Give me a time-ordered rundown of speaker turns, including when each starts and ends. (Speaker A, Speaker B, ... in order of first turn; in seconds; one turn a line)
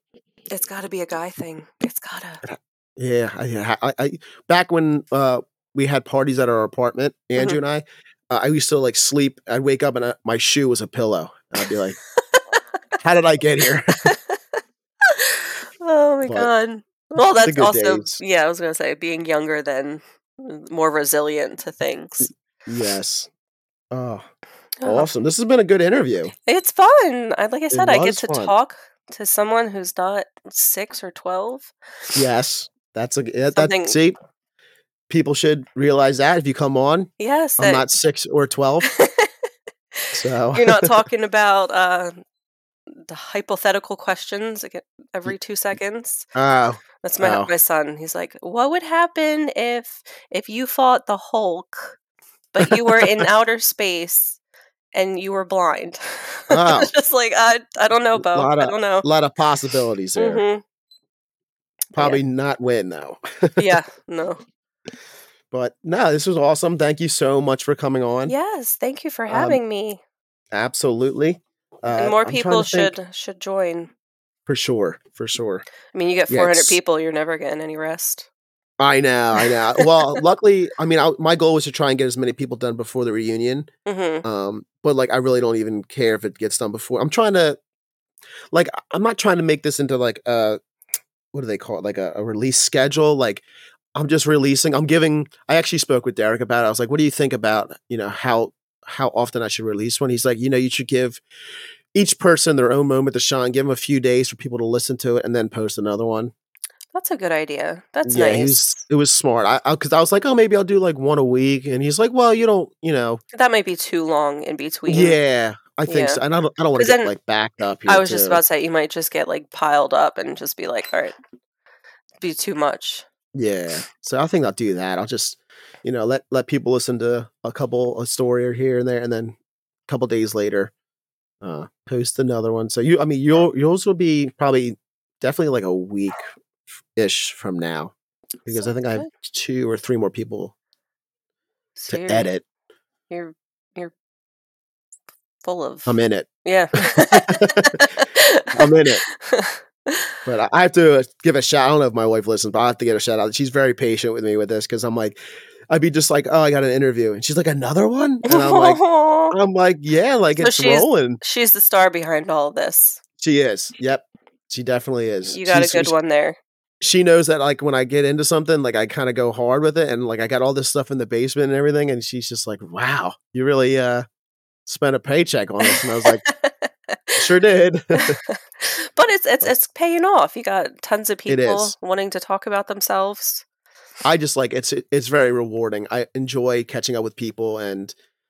Speaker A: 0.5-2.4
Speaker B: 2.4-12.0
Speaker A: 12.3-12.6
Speaker B: 13.0-14.1
Speaker A: 14.0-14.4
Speaker A: 15.0-22.3
Speaker B: 17.4-18.2
Speaker B: 22.2-23.3
Speaker B: 23.9-24.2
Speaker A: 24.8-25.1
Speaker B: 24.8-26.3
Speaker A: 26.4-31.7
Speaker B: 27.7-28.5
Speaker B: 32.1-34.2
Speaker A: 33.5-34.0
Speaker B: 35.1-38.9
Speaker A: 37.2-37.9
Speaker A: 38.9-39.3
Speaker A: 39.9-42.2
Speaker B: 40.1-41.0
Speaker A: 42.9-46.3
Speaker B: 46.3-47.5
Speaker A: 47.0-52.0
Speaker A: 52.5-54.4
Speaker B: 52.6-53.2
Speaker A: 54.9-59.0
Speaker B: 56.5-56.9
Speaker B: 58.1-60.4
Speaker A: 60.1-60.6
Speaker B: 61.9-63.7
Speaker A: 63.6-64.4
Speaker B: 65.5-68.3
Speaker A: 68.3-70.0
Speaker B: 69.3-69.6
Speaker B: 70.5-73.0
Speaker A: 72.0-73.9
Speaker B: 74.5-75.7
Speaker A: 75.9-78.3
Speaker B: 76.3-76.8
Speaker B: 78.8-83.7
Speaker A: 79.4-80.2
Speaker A: 83.8-84.2
Speaker B: 84.2-87.6
Speaker B: 88.5-90.6
Speaker B: 91.3-101.2
Speaker B: 101.9-106.3
Speaker A: 106.9-108.7
Speaker B: 108.1-113.2
Speaker A: 113.3-115.2
Speaker B: 114.9-118.4
Speaker A: 115.9-116.2
Speaker A: 116.8-117.1
Speaker A: 117.9-121.2
Speaker A: 122.2-123.0
Speaker B: 123.3-130.7
Speaker B: 131.4-136.3
Speaker B: 136.9-137.9
Speaker B: 138.4-140.5
Speaker A: 138.5-139.1
Speaker A: 141.8-142.3
Speaker B: 141.9-142.4
Speaker A: 143.1-143.9
Speaker A: 145.4-150.1
Speaker B: 145.8-147.9
Speaker B: 148.5-149.0
Speaker B: 150.2-155.2
Speaker B: 155.7-161.2
Speaker A: 158.2-159.3
Speaker A: 160.4-163.0
Speaker B: 163.2-165.9
Speaker A: 165.3-166.4
Speaker B: 166.8-174.0
Speaker B: 174.7-176.2
Speaker A: 175.7-177.3
Speaker B: 177.2-178.2
Speaker A: 177.9-183.4
Speaker B: 181.3-181.7
Speaker B: 184.0-187.9